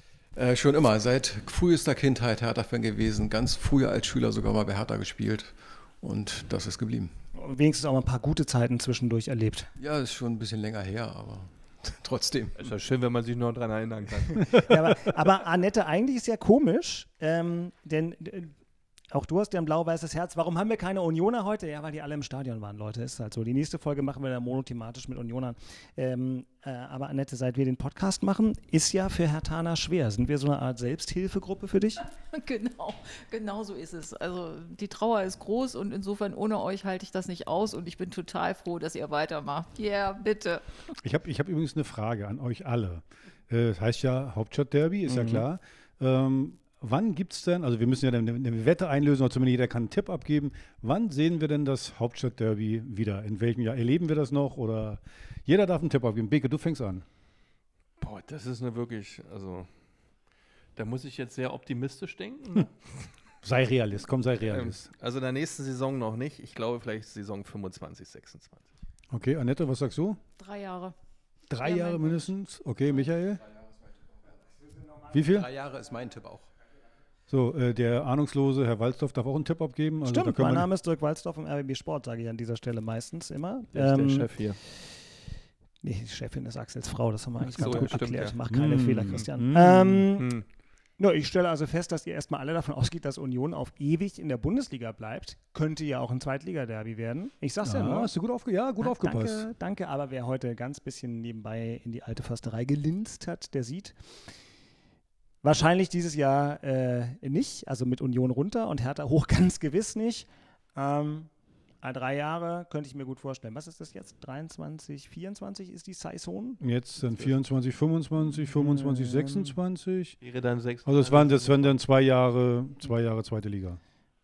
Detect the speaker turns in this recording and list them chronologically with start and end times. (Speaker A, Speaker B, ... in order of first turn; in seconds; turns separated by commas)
Speaker A: 0.3-7.1, Speaker B: 7.3-9.7, Speaker A: 9.8-12.6, Speaker C: 12.6-14.5, Speaker B: 14.6-18.5, Speaker B: 19.1-32.0, Speaker D: 32.3-40.8, Speaker E: 41.0-57.0, Speaker B: 45.1-45.4, Speaker C: 58.0-59.7, Speaker C: 60.8-62.7, Speaker E: 63.4-64.9, Speaker C: 64.4-68.7, Speaker E: 69.1-70.2, Speaker D: 70.4-70.9, Speaker E: 71.5-73.4, Speaker D: 71.6-72.3, Speaker E: 75.1-75.5, Speaker A: 75.2-76.5, Speaker E: 77.3-80.7, Speaker B: 80.0-85.1, Speaker C: 83.7-84.6, Speaker B: 85.8-90.3, Speaker C: 87.4-88.3, Speaker E: 87.7-87.9, Speaker E: 88.5-90.1, Speaker C: 90.2-90.4, Speaker B: 91.0-98.1, Speaker E: 97.6-99.5, Speaker B: 98.8-104.0, Speaker B: 105.4-111.3, Speaker B: 111.8-116.6, Speaker E: 116.6-120.2, Speaker B: 118.3-119.5, Speaker C: 120.2-121.8, Speaker E: 120.8-123.8